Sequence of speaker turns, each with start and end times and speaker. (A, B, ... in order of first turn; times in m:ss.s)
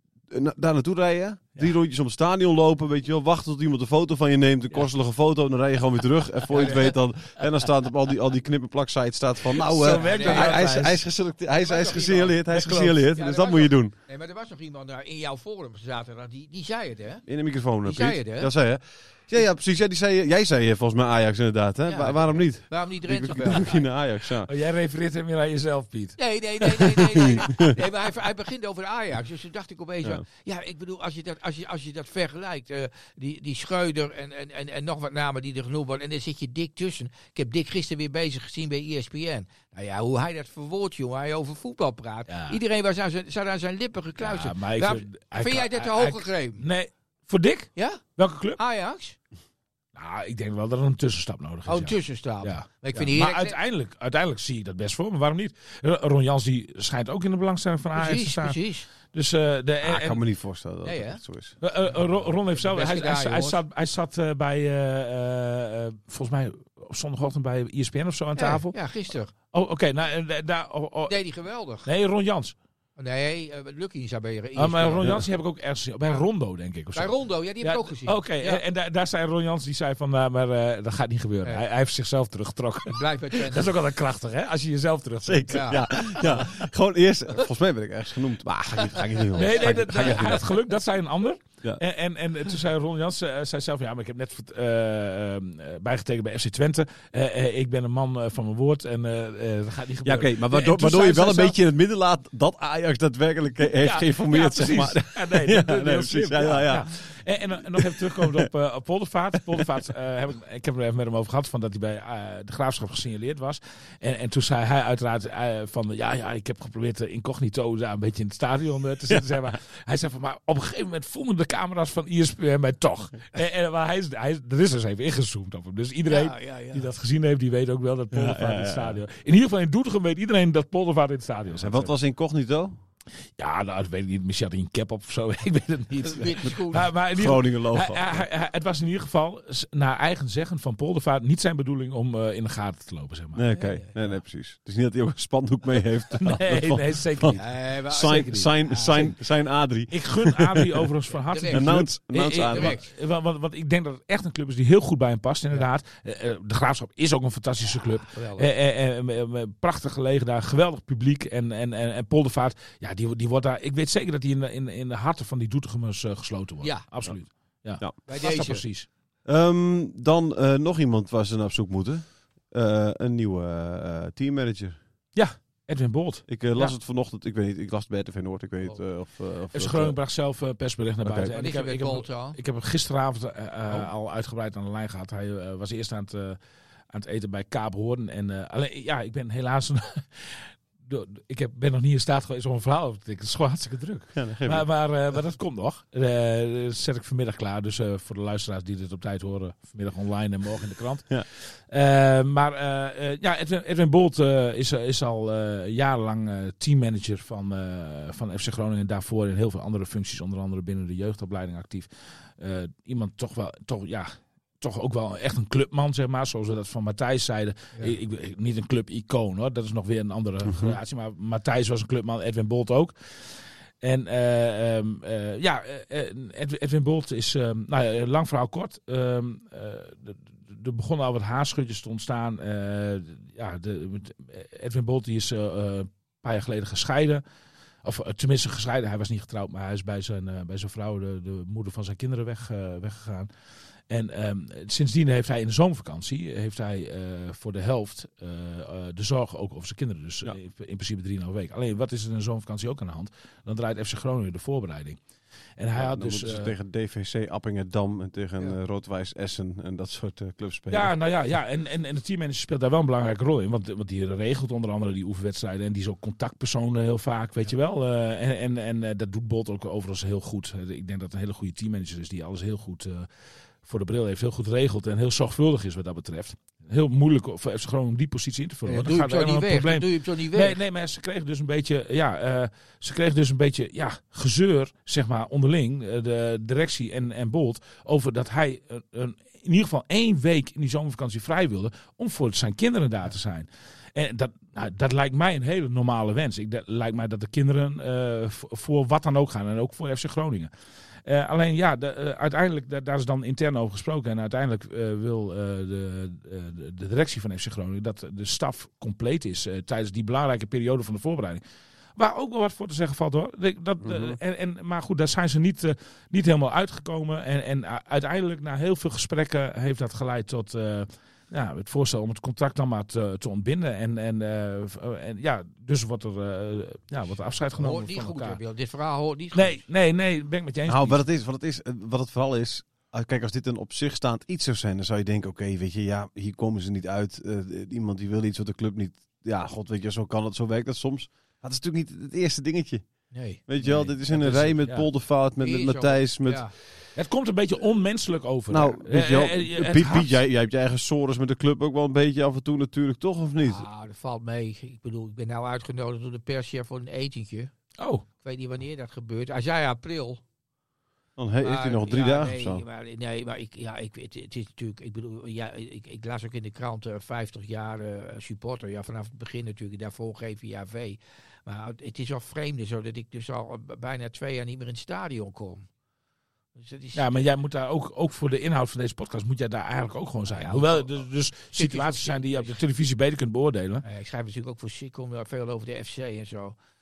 0:00.3-0:13.9 A
0:06.5-0:06.9 B
0:06.6-0:07.0 C
0:09.6-0:11.0 B
0:09.8-0:10.7 C
0:11.6-0:12.4 C
0:12.5-0:13.0 B
0:13.1-0:17.3 C
0:17.3-0:24.5 A
0:17.8-0:18.5 C
0:21.9-0:23.8 C
0:24.5-0:27.3 B
0:26.2-0:46.6 C
0:42.3-0:42.6 B
0:44.2-0:48.6 B
0:47.8-0:48.0 C
0:48.6-0:49.2 C
0:50.0-1:00.2 B
0:51.7-0:53.6 C
0:58.0-0:58.9 C
0:59.8-1:01.6 A
1:00.8-1:01.2 C
1:01.6-1:08.9 B
1:02.5-1:03.6 C
1:08.4-1:09.3 C
1:09.5-1:11.2 B
1:11.1-1:11.9 C
1:11.8-1:12.6 B
1:13.0-1:15.2 C
1:14.6-1:26.7 B
1:17.0-1:18.6 C
1:22.9-1:23.7 C
1:25.2-1:30.5 A
1:25.5-1:26.4 C
1:28.8-1:30.4 C
1:29.3-1:41.6 B
1:40.0-1:47.2 A
1:43.8-2:11.9 B
1:47.8-1:48.5 A
2:06.1-2:06.8 C
2:08.1-2:09.0 A
2:11.6-2:12.8 A
2:13.4-2:23.4 B
2:15.9-2:16.9 C
2:17.2-2:18.2 A
2:23.4-2:27.4 A
2:23.5-2:24.2 C
2:26.2-2:29.1 B
2:27.3-2:29.0 C
2:27.9-2:30.9 A
2:29.9-2:48.9 B
2:31.3-2:31.7 C
2:31.5-2:32.8 A
2:32.5-2:32.8 C
2:37.7-2:38.5 C
2:47.8-2:48.0 A
2:48.1-2:48.6 C
2:49.2-2:54.8 A
2:55.1-2:56.8 B
2:56.3-3:00.0 A
2:59.5-3:06.4 B
3:01.0-3:01.3 A
3:01.3-3:02.4 C
3:06.9-3:57.2 B
3:14.1-3:14.7 A
3:40.5-3:40.8 A
3:57.8-4:03.3 B
4:03.9-4:15.0 B
4:15.6-4:16.5 B
4:15.8-4:20.9 A
4:20.7-4:33.1 B
4:33.6-5:00.5 B
4:38.7-4:40.6 C
5:01.1-5:11.4 B
5:12.0-5:28.4 B
5:13.8-5:14.2 A
5:27.6-5:29.6 C
5:29.3-5:31.0 B
5:30.7-5:42.9 A
5:43.1-5:43.4 C
5:43.5-5:46.4 A
5:43.6-5:44.9 B
5:45.4-5:46.5 C
5:47.0-5:50.2 B
5:48.5-5:53.7 A
5:53.4-5:57.5 C
5:57.8-5:58.0 B
5:58.2-6:00.2 C
6:01.2-6:02.6 A
6:01.4-6:15.7 C
6:16.6-6:17.0 C
6:17.0-6:23.8 B
6:20.3-6:21.0 C
6:21.6-6:22.6 C
6:23.8-6:26.6 C